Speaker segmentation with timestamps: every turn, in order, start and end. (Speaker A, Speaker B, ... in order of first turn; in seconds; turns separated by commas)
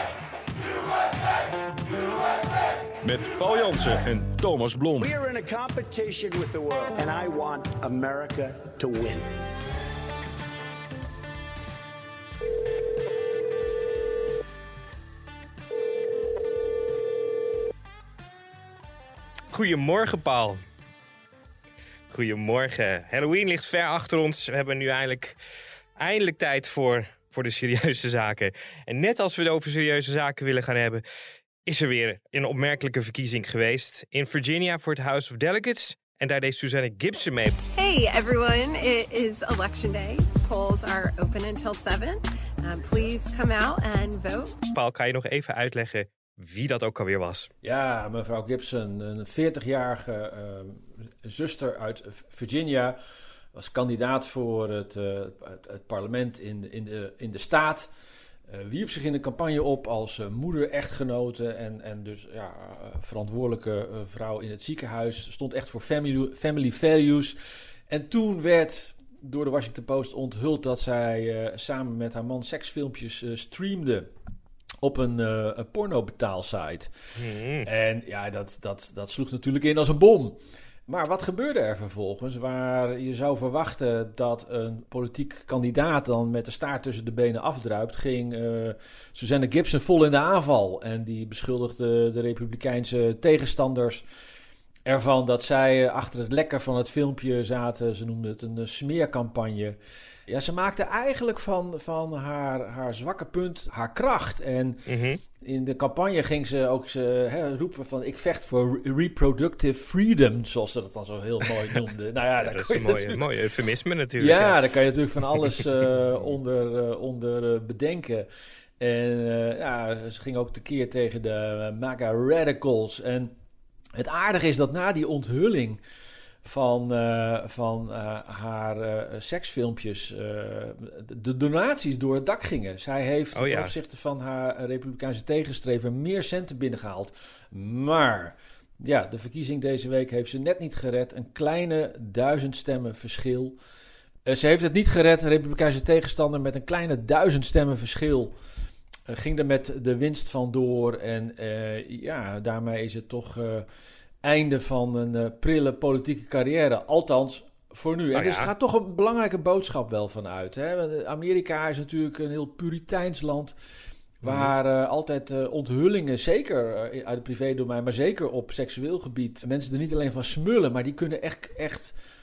Speaker A: 3.0-5.1, Speaker B: 5.0-9.3, Speaker C: 19.5-20.6, Speaker C: 22.1-25.4, Speaker C: 26.0-31.0, Speaker C: 31.7-37.6, Speaker D: 37.8-44.6, Speaker C: 44.7-47.5, Speaker E: 47.6-53.0, Speaker E: 53.5-57.9, Speaker E: 58.5-67.4, Speaker E: 67.9-74.1, Speaker E: 74.8-76.9, Speaker C: 77.2-77.7, Speaker E: 77.6-94.0, Speaker E: 94.9-99.8, Speaker E: 100.3-104.9, Speaker C: 104.9-105.2, Speaker E: 105.4-113.2, Speaker C: 112.4-114.6, Speaker E: 114.2-118.3, Speaker E: 118.8-123.3, Speaker E: 124.0-125.8, Speaker E: 126.4-143.6, Speaker C: 133.3-133.7, Speaker E: 144.3-148.3, Speaker E: 149.1-153.7, Speaker E: 154.2-163.6, Speaker C: 158.1-158.5, Speaker E: 164.2-171.9, Speaker C: 164.2-164.5